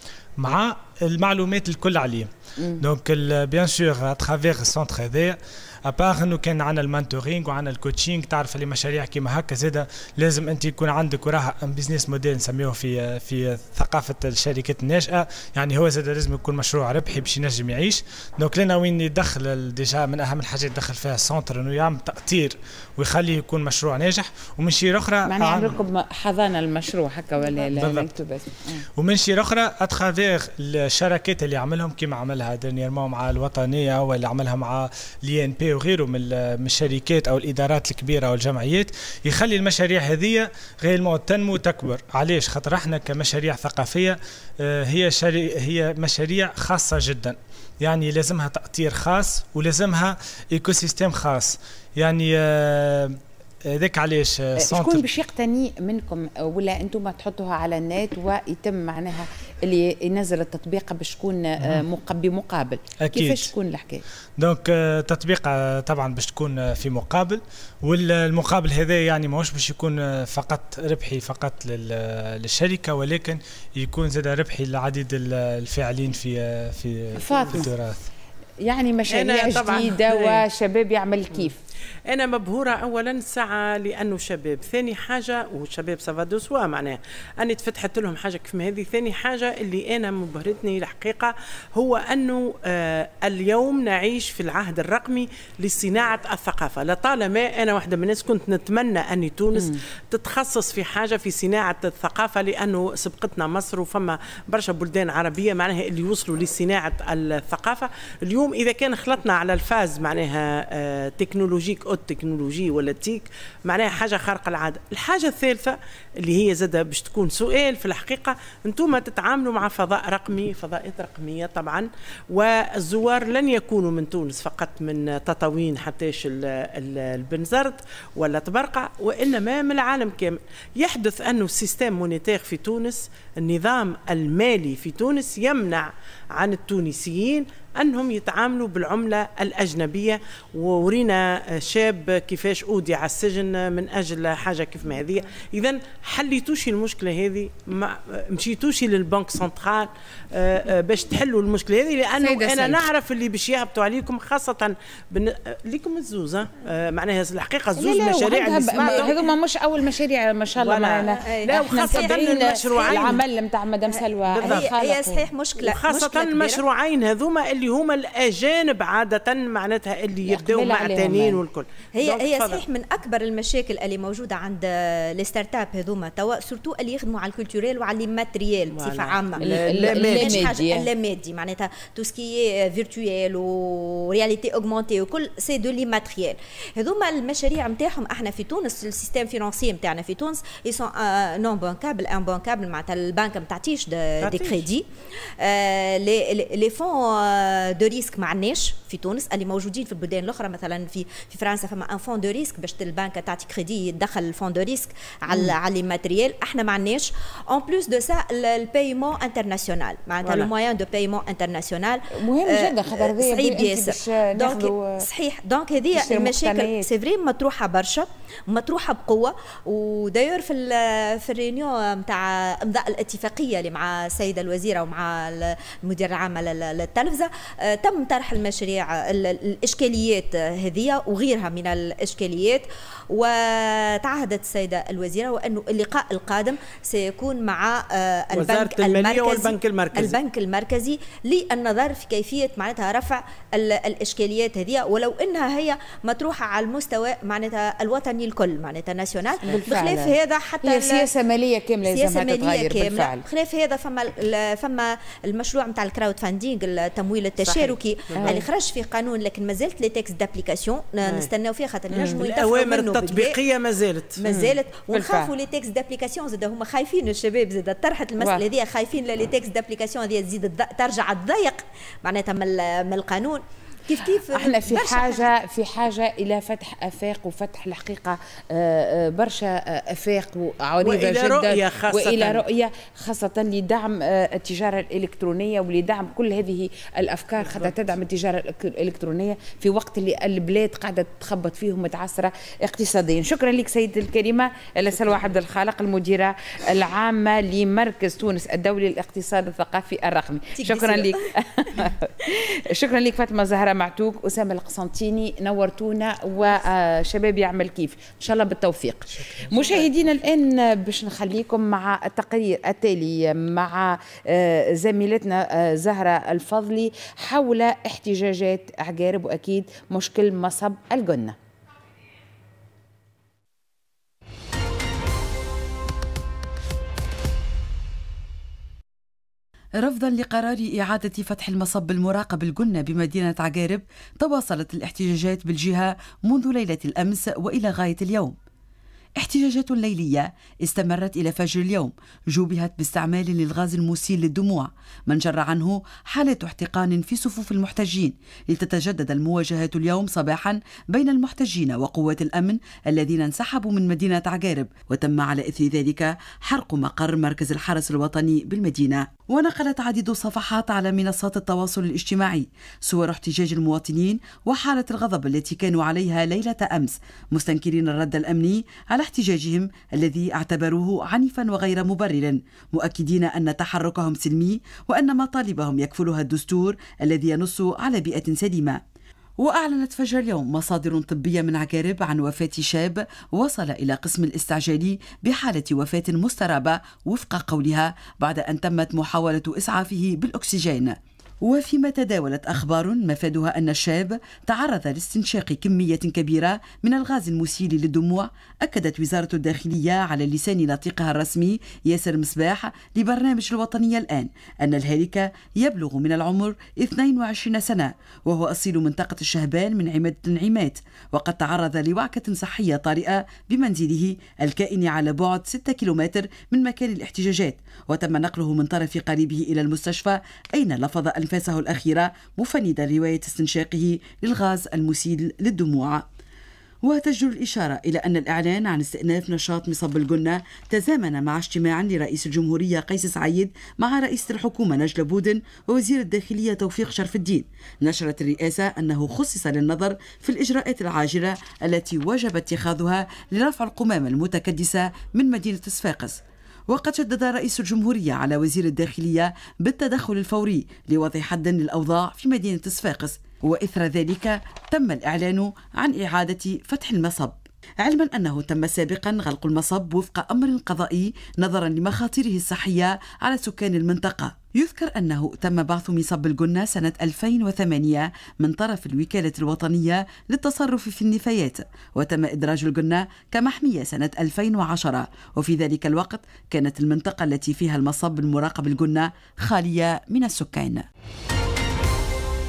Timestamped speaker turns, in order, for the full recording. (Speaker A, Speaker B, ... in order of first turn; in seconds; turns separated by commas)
Speaker A: 0.4-25.8, Speaker B: 25.3-28.8, Speaker A: 27.6-28.1, Speaker A: 29.0-55.1, Speaker B: 54.6-64.0, Speaker A: 63.0-63.5, Speaker A: 64.4-78.1, Speaker B: 77.2-77.7, Speaker B: 78.6-81.6, Speaker C: 79.1-80.4, Speaker C: 82.1-159.2, Speaker B: 152.2-152.8, Speaker B: 157.8-165.2, Speaker C: 160.6-163.2, Speaker D: 161.1-163.2, Speaker C: 164.3-164.7, Speaker D: 164.4-166.6, Speaker C: 165.6-172.6, Speaker B: 170.3-171.4, Speaker D: 171.9-194.8, Speaker C: 178.7-180.4, Speaker B: 179.4-180.8, Speaker C: 194.2-194.7, Speaker D: 195.4-251.1, Speaker C: 210.2-210.5, Speaker B: 212.1-214.9, Speaker B: 215.9-216.8, Speaker C: 238.3-240.2, Speaker B: 249.4-253.2, Speaker D: 251.9-263.4, Speaker B: 257.4-258.4, Speaker C: 258.2-258.4, Speaker B: 261.9-262.2, Speaker C: 261.9-264.2, Speaker D: 264.2-275.3, Speaker B: 264.3-265.3, Speaker B: 273.9-321.4, Speaker C: 280.8-282.4, Speaker C: 287.5-287.7, Speaker D: 300.6-301.1, Speaker E: 329.8-338.4, Speaker E: 339.2-378.8, Speaker E: 379.4-426.0, Speaker E: 426.8-480.9